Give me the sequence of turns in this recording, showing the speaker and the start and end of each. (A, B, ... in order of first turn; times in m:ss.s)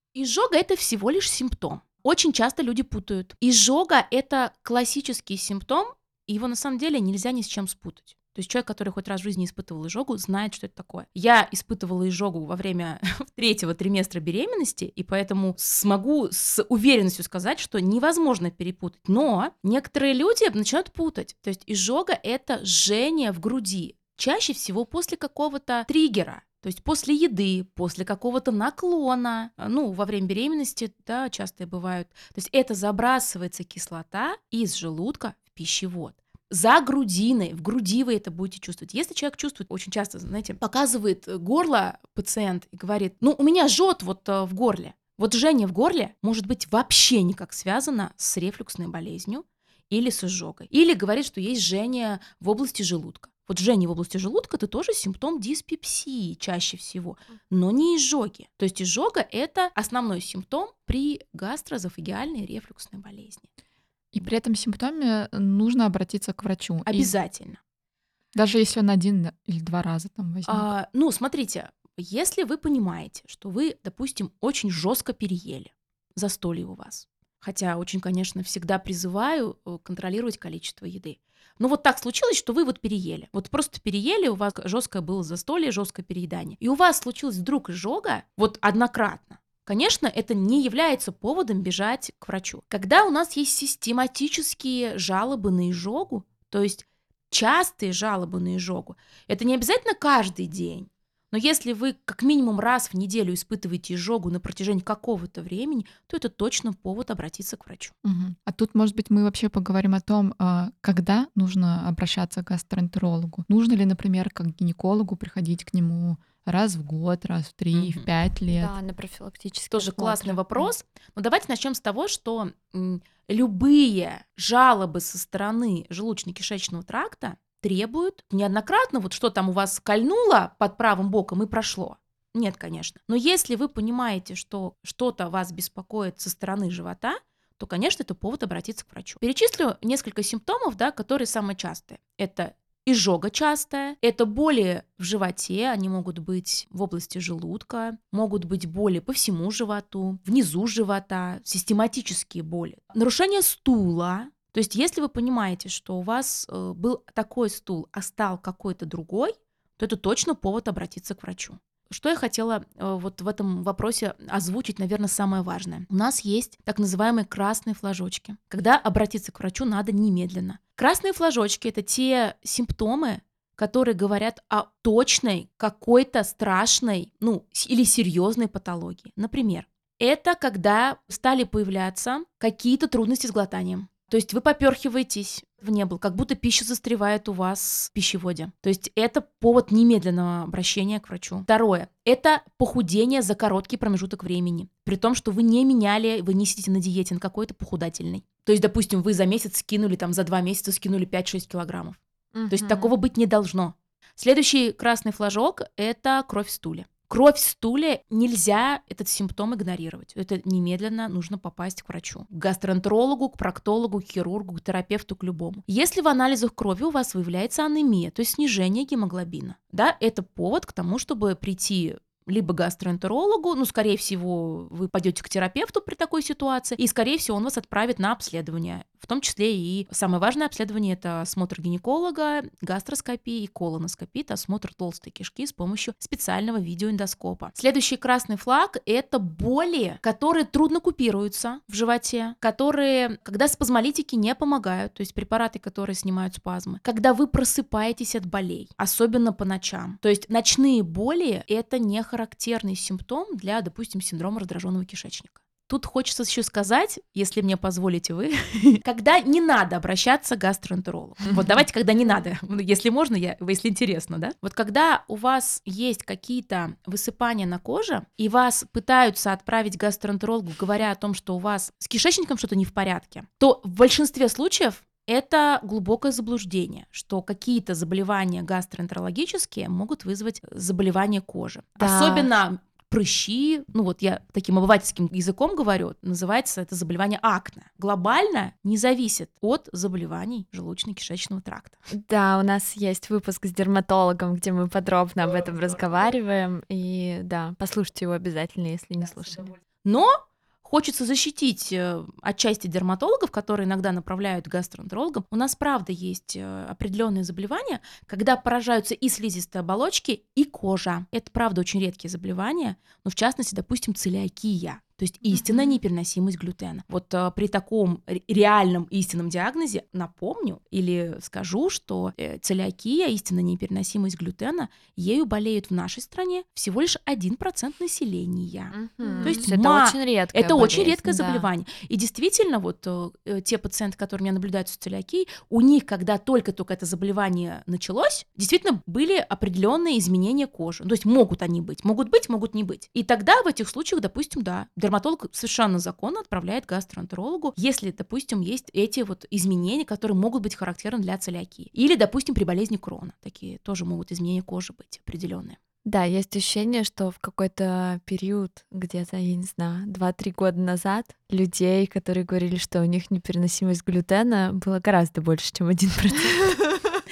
0:00.1-1:03.5 A
1:04.1-1:07.1 B
1:06.8-1:07.6 A
1:08.3-1:10.7 B
1:10.5-1:47.9 A
1:48.0-1:58.7 B
1:57.7-1:58.1 A
1:58.5-2:00.7 C
1:59.7-3:22.0 A
3:22.3-3:22.9 C
3:22.5-4:51.8 A
4:41.8-4:42.3 C
4:51.9-4:59.5 C
4:59.8-5:55.6 A
5:28.7-5:31.5 C
5:29.2-5:29.4 B
5:55.8-6:06.7 C